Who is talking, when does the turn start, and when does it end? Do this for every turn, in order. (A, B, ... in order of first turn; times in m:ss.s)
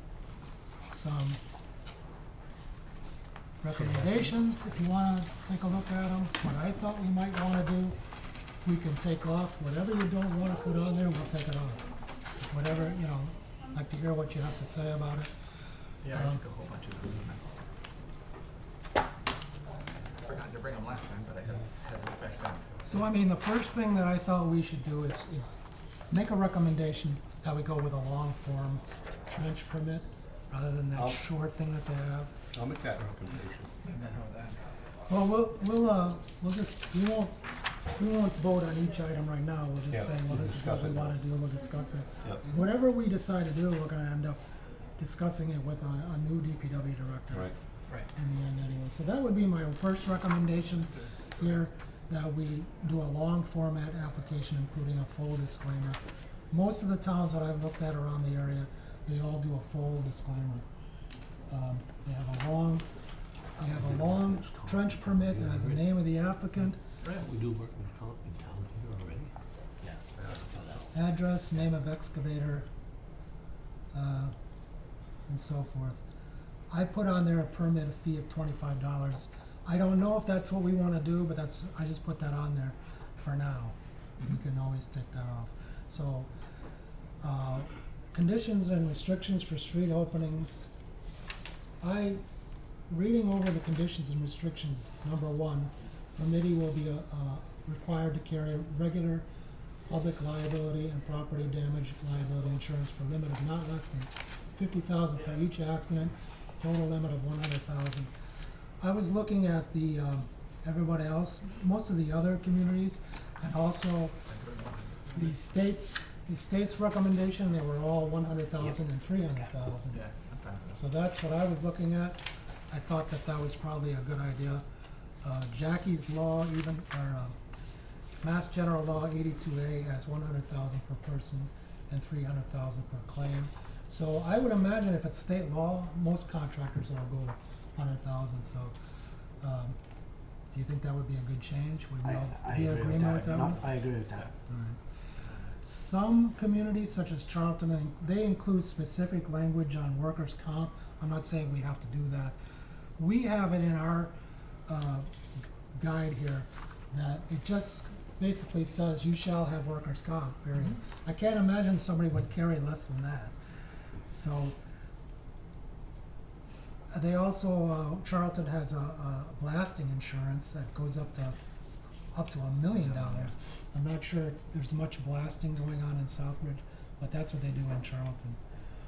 0:00.9-0:01.4 A
0:03.6-0:08.0 A
0:08.6-0:15.3 A
0:16.0-0:17.6 B
0:16.1-0:16.4 A
0:20.2-0:22.9 B
0:22.8-0:32.3 A
0:32.5-0:33.7 C
0:33.8-0:34.6 B
0:35.1-0:44.4 A
0:39.9-0:41.2 C
0:42.4-0:42.7 B
0:45.0-0:47.5 A
0:47.3-0:47.6 C
0:48.1-0:56.0 A
0:56.5-1:00.6 A
1:01.5-1:02.9 A
1:03.6-1:06.8 A
1:03.6-1:06.0 C
1:07.0-1:07.3 B
1:07.1-1:09.3 C
1:10.0-1:10.9 C
1:10.9-1:12.7 A
1:13.9-1:14.3 A
1:15.3-1:16.0 A
1:16.7-1:26.3 A
1:27.2-1:30.7 A
1:31.8-1:32.2 A
1:32.9-1:39.3 A
1:39.9-1:48.1 A
1:48.8-1:54.2 A
1:54.3-1:55.4 B
1:55.1-2:00.0 A
1:59.9-2:00.8 B
2:00.8-2:04.6 A
2:05.2-2:07.4 A
2:08.2-2:18.8 A
2:19.4-2:19.8 A
2:20.5-2:23.6 A
2:22.0-2:24.3 D
2:24.5-2:24.8 A
2:25.6-2:32.4 A
2:33.0-2:34.1 A
2:34.7-2:35.1 A
2:35.7-2:43.3 A
2:44.0-2:44.6 A
2:46.9-2:51.4 A
2:52.1-2:58.4 A
2:52.8-2:53.3 B